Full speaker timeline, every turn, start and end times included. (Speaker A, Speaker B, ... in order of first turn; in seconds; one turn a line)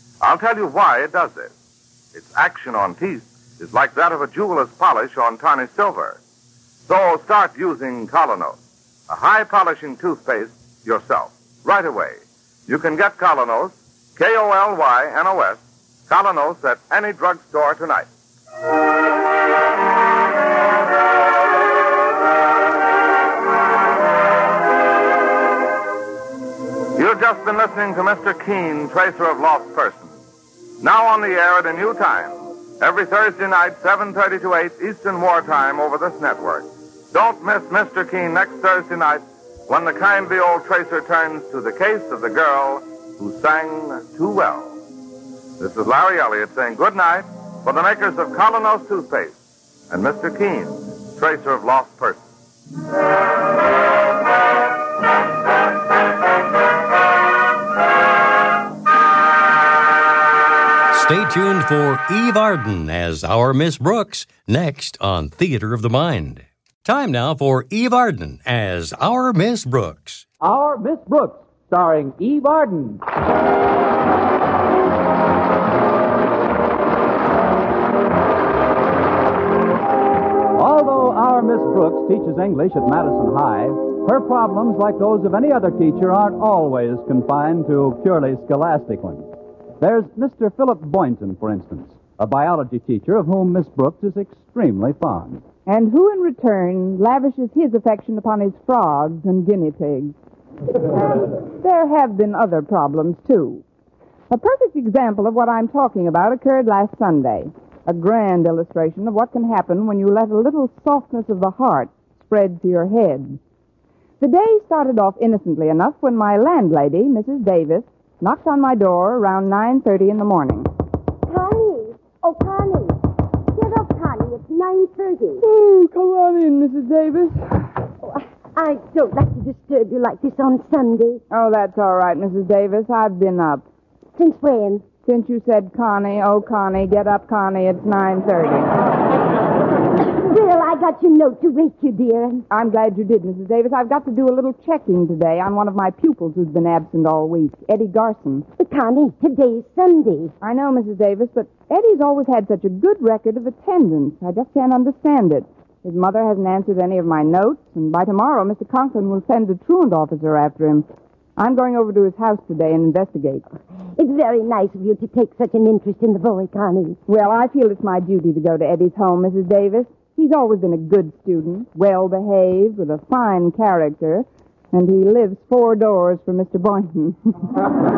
Speaker A: 0.2-1.5
Speaker A: 2.1-6.2
Speaker A: 6.9-18.1
Speaker A: 26.9-30.2
Speaker A: 30.8-44.8
Speaker A: 45.6-49.4
Speaker A: 49.9-52.2
Speaker B: 60.9-70.3
Speaker C: 70.4-73.0
Speaker C: 80.6-89.3
Speaker C: 89.8-95.4
Speaker D: 95.7-100.1
Speaker D: 101.1-103.6
Speaker D: 104.3-113.4
Speaker D: 114.2-120.7
Speaker E: 121.3-123.0
Speaker E: 123.5-125.4
Speaker D: 125.4-127.7
Speaker E: 128.0-131.2
Speaker D: 131.3-133.6
Speaker E: 134.2-134.9
Speaker D: 135.0-138.7
Speaker E: 140.2-142.4
Speaker D: 142.5-148.5
Speaker E: 148.6-150.3
Speaker D: 150.4-160.9
Speaker D: 161.4-163.5
Speaker E: 164.0-167.0
Speaker D: 167.1-177.5